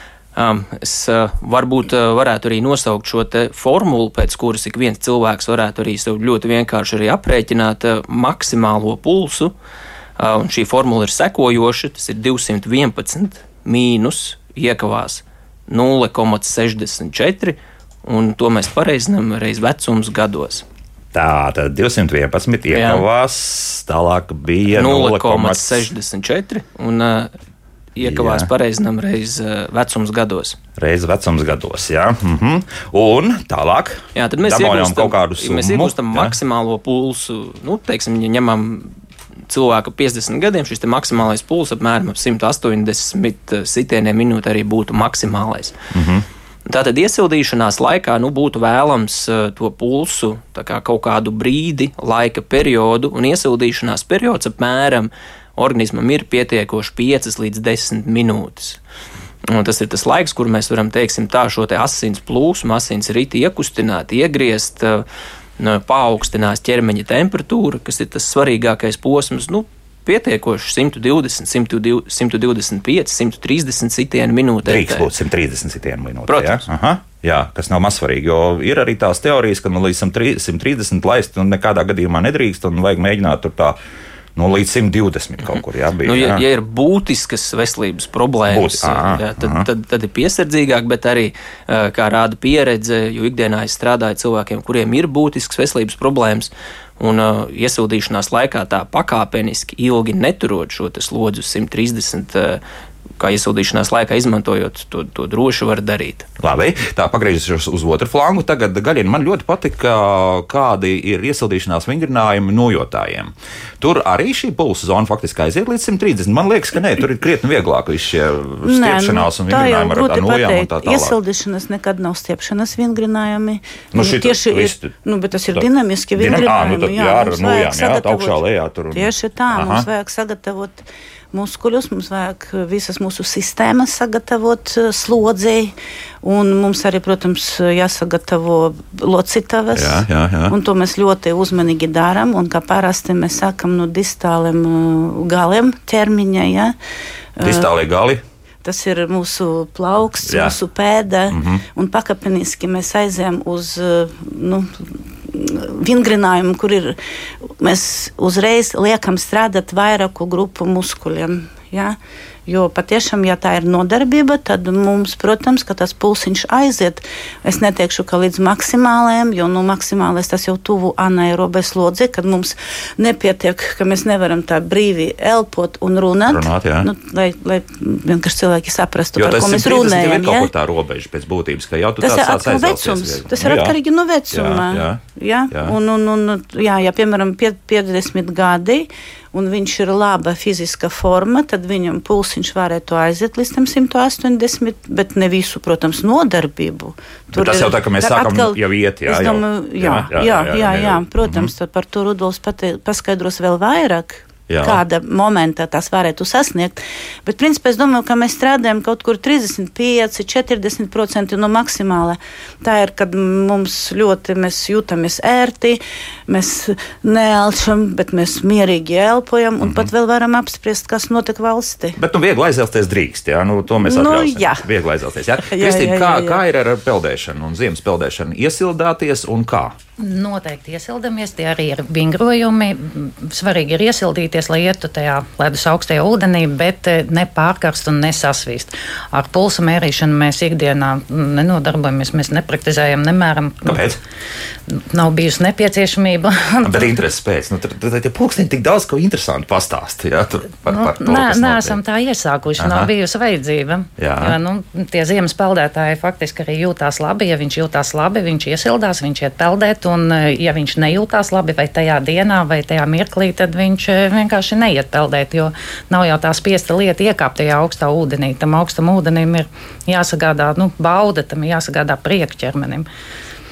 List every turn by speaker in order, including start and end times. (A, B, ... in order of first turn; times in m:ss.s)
0:00.4-0:09.5 A
0:10.2-0:20.6 A
0:21.1-0:25.9 B
0:22.7-0:23.0 A
0:24.7-0:27.3 A
0:28.0-0:30.6 A
0:28.0-0:28.5 B
0:30.8-0:36.4 B
0:34.1-0:38.9 A
0:39.5-0:45.7 A
0:45.9-0:46.2 B
0:46.7-0:58.8 A
0:59.4-1:05.0 A
1:05.6-1:15.1 A
1:14.6-1:23.8 B
1:16.3-1:16.6 A
1:24.4-1:26.4 B
1:26.0-1:42.6 A
1:28.5-1:29.7 B
1:43.2-1:46.3 A
1:46.4-2:01.2 B
1:58.6-2:08.4 C
2:03.9-2:04.9 B
2:05.5-2:09.9 B
2:08.9-2:26.7 C
2:19.7-2:20.5 B
2:27.4-2:27.7 C
2:27.4-2:28.2 B
2:28.6-2:37.0 C
2:30.2-2:30.6 B
2:31.3-2:31.6 B
2:37.6-3:00.5 C
2:56.3-2:56.9 B
2:59.2-3:03.8 B
3:02.0-3:42.0 C
3:04.3-3:05.8 B
3:17.3-3:21.5 B
3:24.5-3:24.8 B
3:39.6-3:39.9 B
3:42.0-3:49.7 B
3:43.8-3:44.6 C
3:45.4-3:46.4 C
3:50.0-4:03.8 D
4:03.6-4:04.0 B
4:04.7-4:06.9 D
4:06.6-4:11.8 B
4:10.7-4:32.9 D
4:12.6-4:12.9 B
4:14.0-4:14.4 B